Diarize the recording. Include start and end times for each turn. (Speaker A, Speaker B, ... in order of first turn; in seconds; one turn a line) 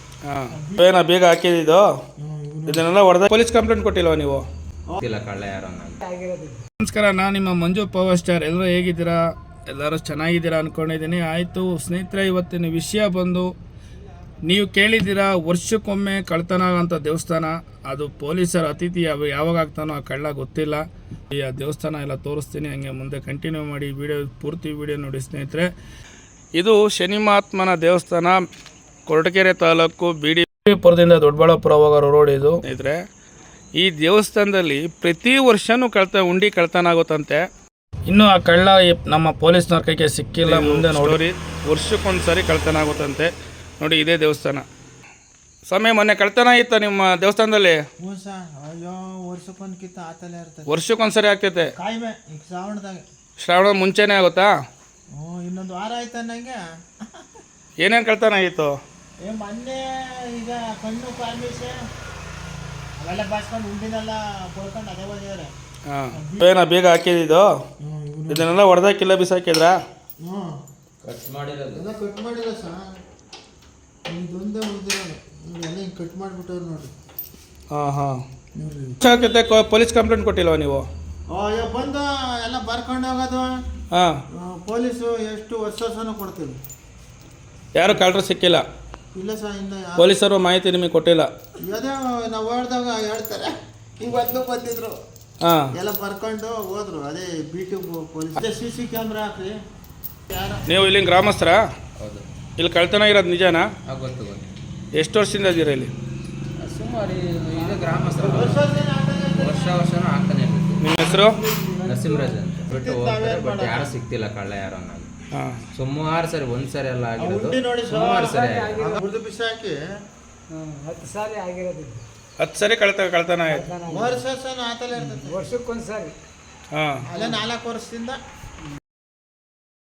Speaker A: 0.2-1.8
Speaker B: 0.5-0.9
Speaker B: 2.2-2.9
Speaker A: 2.7-4.5
Speaker C: 5.0-6.0
Speaker D: 6.0-6.6
Speaker A: 6.8-9.2
Speaker A: 9.7-13.5
Speaker A: 14.4-25.7
Speaker A: 26.5-28.4
Speaker A: 29.1-33.0
Speaker A: 33.8-37.4
Speaker A: 38.1-44.6
Speaker A: 45.6-47.8
Speaker B: 48.0-50.7
Speaker A: 50.7-51.7
Speaker B: 51.8-53.0
Speaker A: 53.4-54.5
Speaker B: 55.1-57.2
Speaker A: 57.8-58.7
Speaker B: 59.2-61.7
Speaker B: 63.0-65.5
Speaker A: 65.9-67.5
Speaker B: 66.1-66.5
Speaker B: 67.8-68.5
Speaker A: 68.3-69.8
Speaker B: 70.2-70.6
Speaker C: 71.0-71.9
Speaker B: 71.7-72.9
Speaker B: 74.1-76.9
Speaker A: 77.7-78.2
Speaker B: 78.6-79.0
Speaker A: 79.0-80.9
Speaker B: 81.3-83.6
Speaker B: 84.4-86.6
Speaker A: 87.7-88.6
Speaker B: 89.1-90.1
Speaker A: 90.0-91.3
Speaker B: 91.7-95.0
Speaker A: 95.4-95.7
Speaker B: 95.7-99.5
Speaker B: 100.3-100.8
Speaker A: 100.7-101.6
Speaker C: 102.0-102.2
Speaker A: 102.6-103.7
Speaker C: 103.8-104.5
Speaker A: 105.0-105.9
Speaker C: 106.6-110.9
Speaker D: 107.9-108.5
Speaker B: 108.2-109.9
Speaker A: 110.8-111.4
Speaker B: 110.9-113.9
Speaker C: 111.8-115.1
Speaker A: 115.3-115.6
Speaker C: 115.7-118.8
Speaker B: 117.2-119.8
Speaker D: 118.1-119.0
Speaker D: 120.5-122.0
Speaker A: 122.4-123.7
Speaker D: 123.4-124.2
Speaker B: 123.9-125.5
Speaker D: 124.9-126.1
Speaker A: 126.7-127.0
Speaker B: 127.1-128.2
Speaker D: 127.1-127.5